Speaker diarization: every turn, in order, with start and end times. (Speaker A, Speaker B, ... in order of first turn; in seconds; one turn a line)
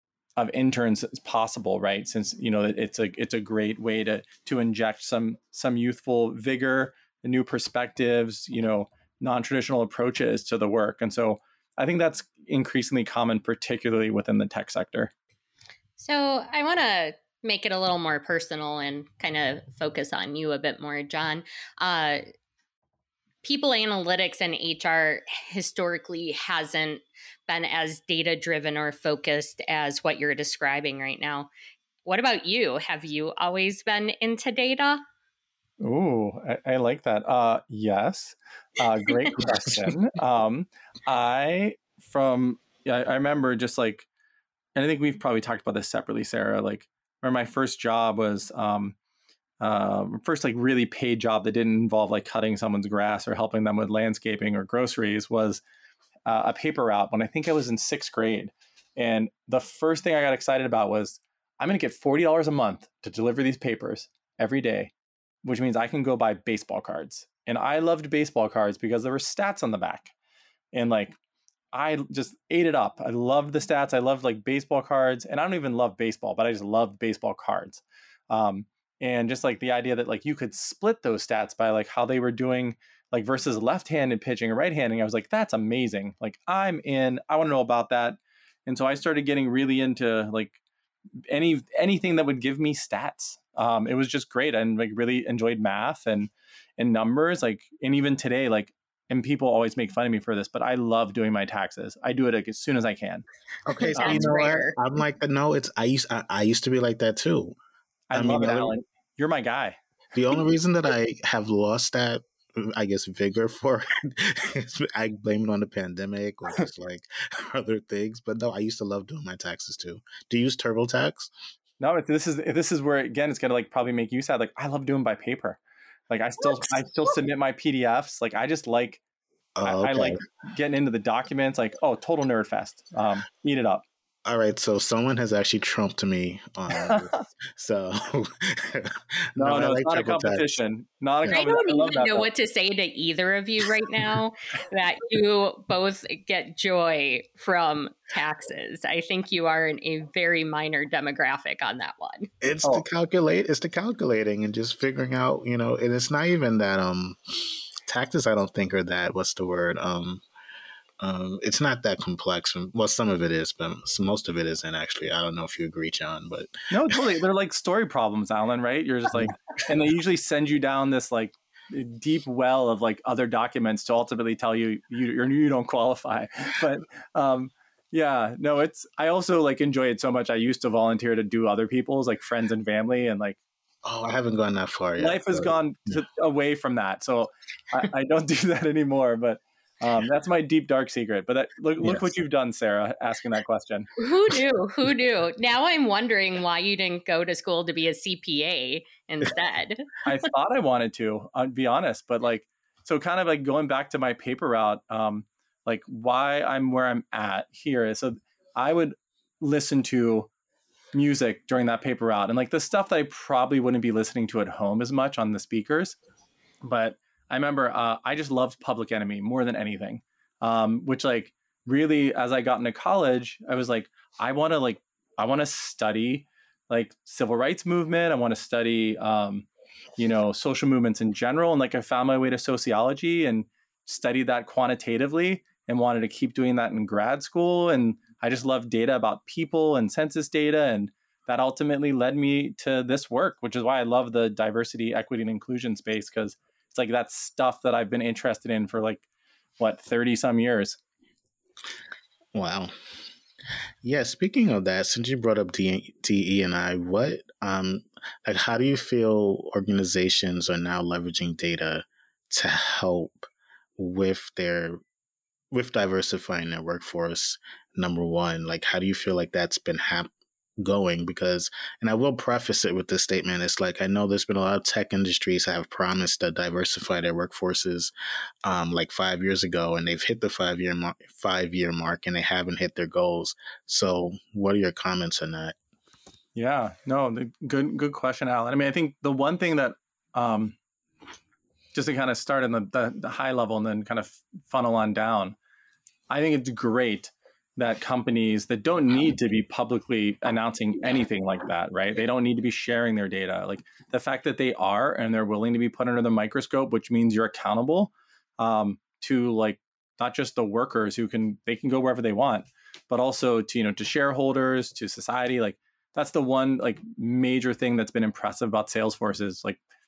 Speaker A: 0.4-15.1
Speaker B: 16.0-22.2
Speaker B: 23.4-31.5
Speaker B: 32.0-35.0
Speaker A: 35.8-44.0
Speaker A: 44.8-48.9
Speaker A: 49.6-55.6
Speaker A: 56.2-64.9
Speaker A: 65.4-70.1
Speaker A: 70.7-71.2
Speaker A: 71.7-90.6
Speaker A: 91.3-103.2
Speaker C: 103.7-107.5
Speaker B: 103.8-104.8
Speaker A: 104.0-104.3
Speaker A: 108.1-109.8
Speaker C: 108.1-108.7
Speaker C: 110.1-121.3
Speaker A: 121.8-129.0
Speaker C: 129.6-130.2
Speaker A: 129.6-133.8
Speaker C: 134.3-140.4
Speaker A: 136.7-137.2
Speaker A: 139.4-142.3
Speaker B: 141.2-152.3
Speaker C: 152.4-160.2
Speaker C: 161.0-167.0
Speaker A: 166.7-183.4
Speaker C: 183.8-186.0
Speaker A: 185.0-193.9
Speaker C: 191.8-192.1
Speaker B: 194.0-200.2
Speaker A: 200.0-210.3
Speaker A: 210.9-216.0
Speaker A: 216.6-249.0
Speaker A: 249.6-250.8
Speaker C: 252.3-252.7
Speaker C: 253.8-264.8
Speaker C: 265.5-277.9
Speaker C: 278.4-285.6
Speaker A: 286.3-290.6
Speaker A: 291.7-295.4
Speaker A: 296.1-319.6